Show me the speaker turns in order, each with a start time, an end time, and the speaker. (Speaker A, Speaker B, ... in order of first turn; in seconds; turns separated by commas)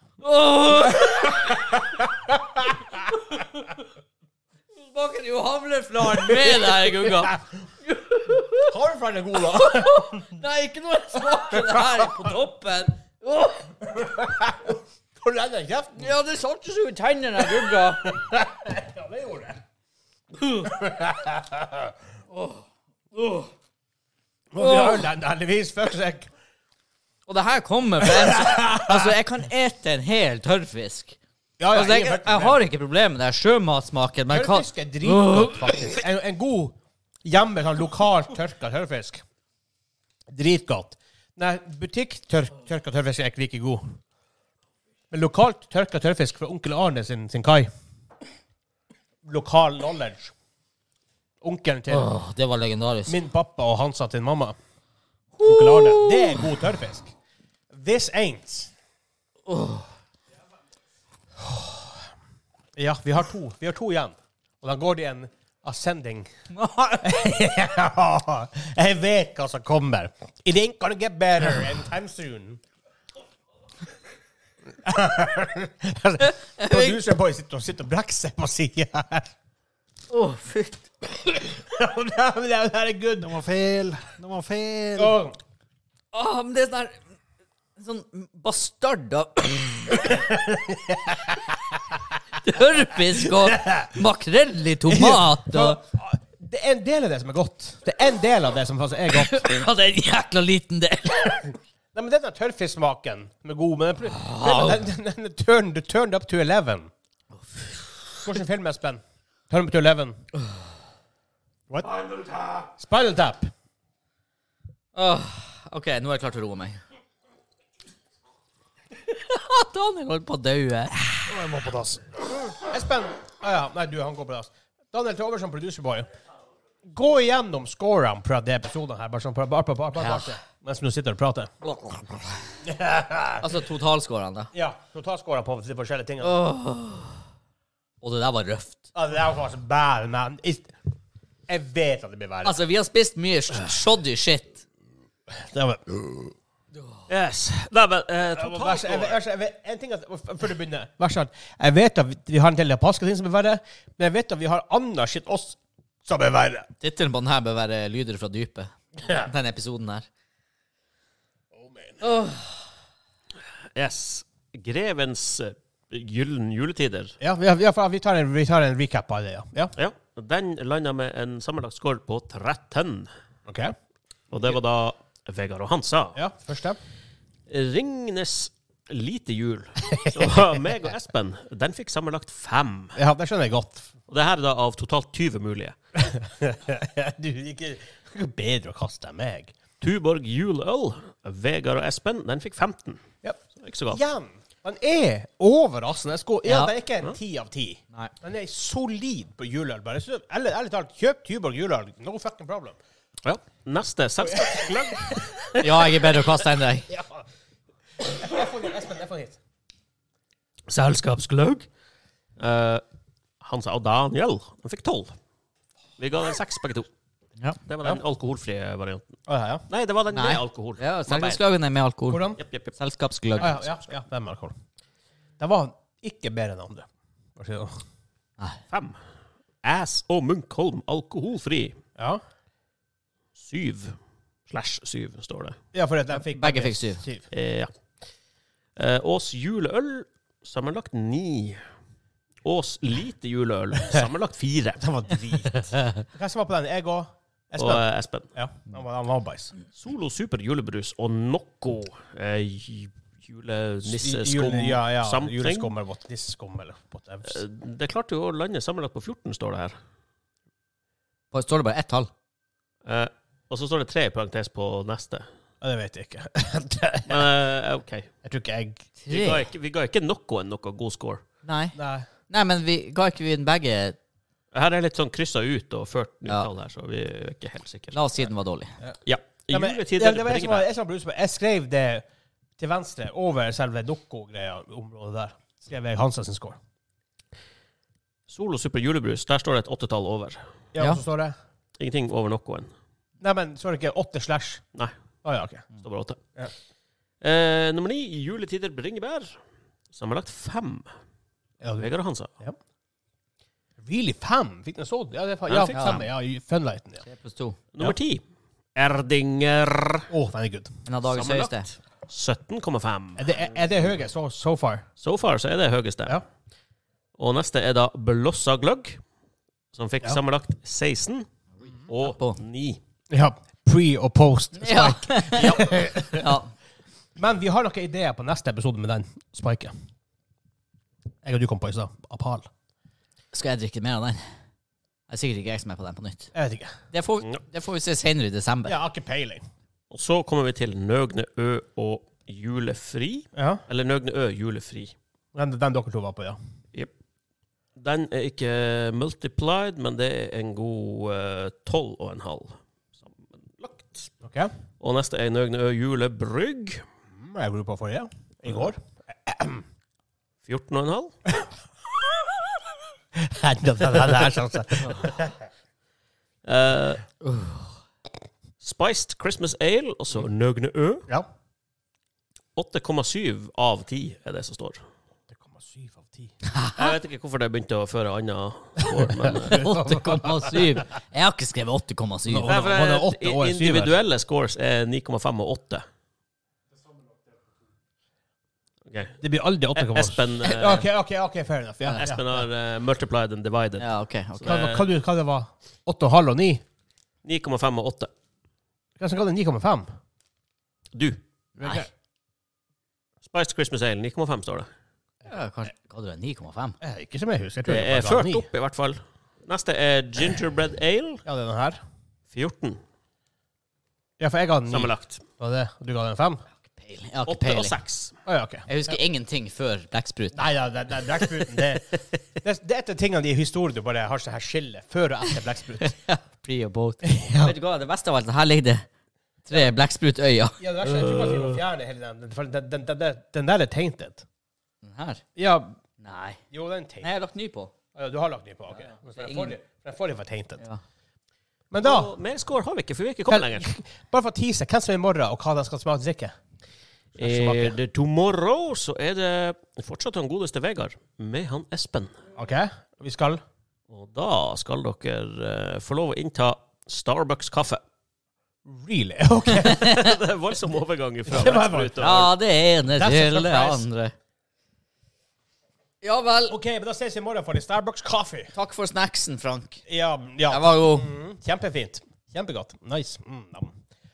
Speaker A: 0.2-1.6, Speaker B: 0.7-3.1, Speaker A: 4.7-8.7, Speaker B: 6.0-7.5, Speaker B: 8.6-10.3, Speaker A: 9.4-13.8, Speaker B: 11.2-12.3, Speaker B: 13.8-16.1, Speaker A: 15.9-18.2, Speaker B: 17.4-19.6, Speaker B: 20.4-21.9, Speaker A: 22.3-22.6, Speaker A: 23.2-23.5, Speaker B: 24.5-26.3, Speaker A: 24.6-25.1, Speaker A: 27.3-31.2, Speaker B: 28.0-29.1, Speaker B: 31.6-32.6, Speaker A: 31.7-35.9, Speaker B: 34.3-39.2, Speaker B: 40.3-44.0, Speaker B: 45.1-47.7, Speaker B: 49.2-50.3, Speaker B: 51.4-52.1, Speaker A: 51.9-53.2, Speaker B: 53.1-54.5, Speaker A: 55.4-56.5, Speaker B: 55.4-57.1, Speaker B: 57.7-58.7, Speaker A: 59.5-59.8, Speaker B: 61.4-61.9, Speaker B: 62.8-66.3, Speaker A: 66.5-67.1, Speaker B: 67.0-72.6, Speaker B: 74.8-79.3, Speaker A: 76.2-77.0, Speaker A: 80.1-81.2, Speaker B: 81.4-83.3, Speaker C: 83.2-85.2, Speaker B: 85.0-85.3, Speaker A: 86.1-87.0, Speaker A: 87.8-90.1, Speaker B: 89.9-92.0, Speaker A: 92.4-95.8, Speaker B: 93.1-93.9, Speaker B: 94.9-99.5, Speaker A: 99.1-101.5, Speaker B: 101.9-106.9, Speaker A: 104.1-104.8, Speaker B: 108.2-110.2, Speaker B: 112.7-113.5, Speaker A: 114.9-116.8, Speaker A: 119.1-121.2, Speaker C: 121.3-122.0, Speaker B: 122.5-126.1, Speaker B: 126.8-131.5, Speaker A: 130.0-130.4, Speaker A: 131.6-132.4, Speaker B: 132.6-133.5, Speaker A: 133.4-134.5, Speaker B: 134.5-136.4, Speaker A: 136.2-137.2, Speaker A: 138.0-138.9, Speaker B: 138.9-140.7, Speaker B: 141.5-142.6, Speaker A: 142.4-144.6, Speaker B: 145.3-146.3, Speaker D: 147.1-149.2, Speaker B: 148.3-156.7, Speaker A: 156.8-160.1, Speaker B: 161.5-162.1, Speaker D: 163.7-167.1, Speaker B: 167.2-169.7, Speaker D: 169.8-173.1, Speaker B: 173.5-173.7, Speaker D: 174.3-176.2, Speaker B: 176.1-176.8, Speaker D: 177.5-183.0, Speaker B: 179.8-180.4, Speaker B: 182.9-183.9, Speaker D: 184.1-185.7, Speaker B: 185.9-189.5, Speaker D: 189.8-193.0, Speaker B: 193.2-202.8, Speaker D: 193.6-194.0, Speaker A: 196.4-196.7, Speaker D: 203.2-206.0, Speaker B: 204.2-205.3, Speaker A: 205.6-206.9, Speaker B: 206.9-207.2, Speaker B: 208.0-209.4, Speaker D: 210.7-211.7, Speaker D: 212.4-212.8, Speaker D: 213.4-215.2, Speaker D: 216.0-216.9, Speaker D: 217.7-219.2, Speaker B: 219.3-219.6, Speaker D: 219.7-221.4, Speaker A: 220.1-223.5, Speaker B: 222.1-222.4, Speaker D: 222.4-222.7, Speaker D: 223.3-223.6, Speaker B: 223.4-224.5, Speaker B: 225.4-227.8, Speaker D: 228.7-229.0, Speaker D: 229.6-231.8, Speaker D: 233.3-234.0, Speaker D: 234.5-235.6, Speaker B: 235.7-237.2, Speaker A: 236.2-237.0, Speaker D: 237.3-237.7, Speaker D: 238.8-241.6, Speaker D: 242.4-244.8, Speaker B: 244.8-249.5, Speaker D: 247.6-248.3, Speaker D: 249.7-255.7, Speaker B: 253.8-257.4, Speaker D: 257.3-259.8, Speaker A: 261.3-262.1, Speaker D: 262.8-265.2, Speaker B: 265.6-267.3, Speaker D: 267.1-268.1, Speaker B: 268.2-268.9, Speaker A: 269.0-269.4, Speaker D: 269.1-271.2, Speaker A: 271.4-271.7, Speaker B: 271.7-272.1, Speaker A: 272.3-274.0, Speaker D: 274.5-278.0, Speaker A: 277.9-278.7, Speaker D: 279.1-280.7, Speaker B: 279.5-282.0, Speaker B: 282.6-286.6, Speaker D: 288.3-290.4, Speaker B: 290.7-291.4, Speaker A: 290.8-291.0, Speaker D: 291.8-292.7, Speaker B: 293.2-294.6, Speaker B: 295.2-295.6, Speaker D: 295.8-296.2, Speaker D: 297.2-299.4, Speaker D: 299.9-300.9, Speaker B: 301.6-302.6, Speaker D: 301.8-302.3, Speaker B: 303.8-307.0, Speaker D: 305.5-306.0, Speaker A: 305.7-306.1, Speaker A: 307.0-307.6, Speaker D: 307.7-308.2, Speaker D: 308.7-310.1, Speaker B: 310.1-310.7, Speaker A: 310.9-311.7, Speaker D: 311.1-313.4, Speaker B: 313.2-314.9, Speaker D: 315.0-316.2, Speaker D: 317.2-319.0, Speaker D: 319.7-321.3, Speaker A: 321.6-322.4, Speaker D: 321.9-322.8, Speaker B: 323.1-326.4, Speaker A: 324.6-326.5, Speaker B: 327.2-329.7, Speaker B: 331.2-332.5, Speaker A: 333.3-334.2, Speaker A: 335.1-336.3, Speaker B: 336.3-336.7, Speaker A: 336.9-338.8, Speaker B: 338.6-339.4, Speaker D: 339.9-344.9, Speaker B: 343.3-343.6, Speaker B: 345.3-346.4, Speaker D: 347.8-354.1, Speaker B: 354.2-354.5, Speaker D: 354.8-356.8, Speaker B: 357.1-359.6, Speaker D: 360.4-361.2, Speaker B: 363.1-365.4, Speaker D: 366.4-367.0, Speaker A: 367.2-367.7, Speaker D: 368.6-371.1, Speaker D: 372.6-374.8, Speaker B: 375.3-376.3, Speaker A: 376.4-376.9, Speaker D: 376.8-379.7, Speaker B: 378.9-380.8, Speaker A: 379.4-382.5, Speaker B: 382.2-383.9, Speaker D: 382.5-385.8, Speaker D: 388.9-389.2, Speaker B: 389.2-392.4, Speaker D: 389.7-390.9, Speaker D: 391.9-394.9, Speaker A: 393.8-394.7, Speaker B: 394.4-396.6, Speaker D: 397.2-398.1, Speaker B: 399.0-399.9, Speaker D: 400.9-401.2, Speaker A: 401.6-401.9, Speaker B: 401.6-401.9, Speaker D: 403.2-404.7, Speaker A: 405.2-406.8, Speaker B: 406.8-408.5, Speaker D: 407.6-411.2, Speaker B: 411.2-411.8, Speaker D: 412.3-412.8, Speaker B: 414.2-416.4, Speaker D: 414.7-415.2, Speaker A: 416.7-417.8, Speaker D: 417.3-418.1, Speaker B: 418.2-418.7, Speaker A: 418.7-420.4, Speaker B: 420.3-425.9, Speaker A: 425.8-428.9, Speaker B: 427.0-427.6, Speaker A: 429.5-430.6, Speaker B: 430.6-434.2, Speaker D: 430.8-431.6, Speaker A: 434.8-435.2, Speaker B: 435.4-435.8, Speaker A: 436.0-436.4, Speaker B: 436.5-437.1, Speaker A: 437.0-437.7, Speaker B: 437.9-440.6, Speaker A: 439.1-439.5, Speaker B: 441.7-442.1, Speaker D: 441.8-443.7, Speaker B: 443.3-446.3, Speaker B: 447.2-447.8, Speaker D: 447.2-452.2, Speaker B: 452.4-453.4, Speaker D: 453.9-457.8, Speaker B: 458.6-460.2, Speaker A: 459.5-460.1, Speaker D: 459.6-462.3, Speaker B: 461.3-462.0, Speaker A: 462.0-464.1, Speaker B: 462.9-463.9, Speaker A: 466.0-466.6, Speaker B: 466.5-468.5, Speaker A: 468.5-469.8, Speaker B: 469.9-473.7, Speaker A: 470.5-471.1